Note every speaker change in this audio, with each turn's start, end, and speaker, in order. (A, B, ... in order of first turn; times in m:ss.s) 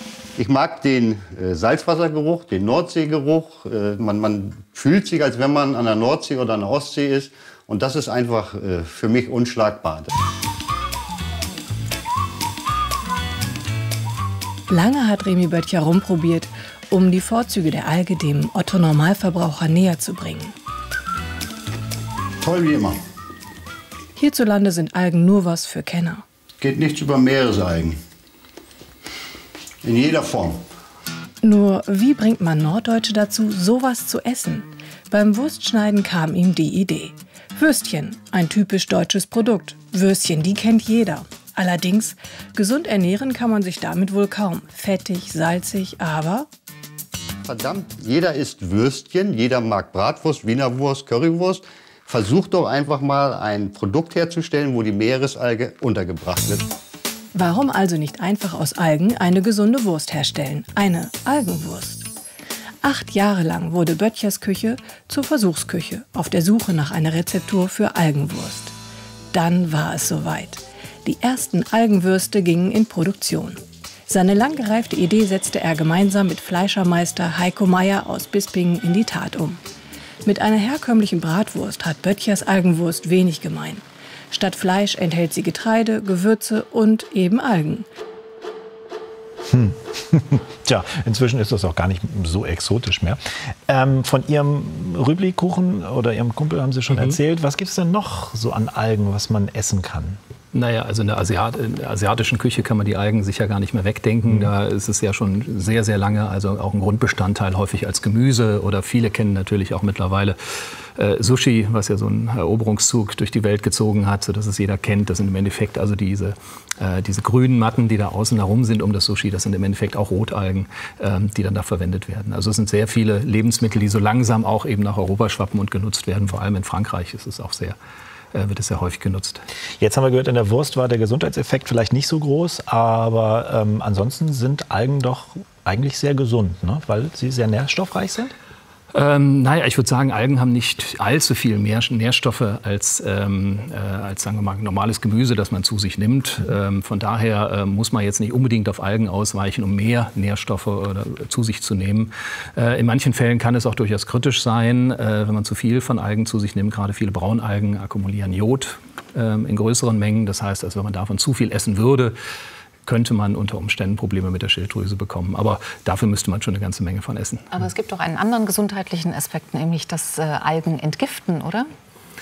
0:00.4-0:10.1 A
0:14.7-0:20.5 B
0:22.4-0:23.0 A
0:24.2-0:26.2 B
0:26.6-0:28.0 A
0:29.8-0:30.6 A
0:31.4-0:46.5 B
0:47.4-0:56.7 A
0:57.3-1:02.1 B
1:02.8-1:08.7 B
1:09.3-1:19.6 B
1:20.2-1:27.9 B
1:29.5-1:40.2 C
1:36.9-1:37.2 D
1:40.5-1:50.4 D
1:50.9-2:07.8 D
2:08.3-2:09.4 D
2:09.8-2:18.3 C
2:18.9-2:42.2 D
2:42.8-2:47.5 D
2:47.5-2:51.7 E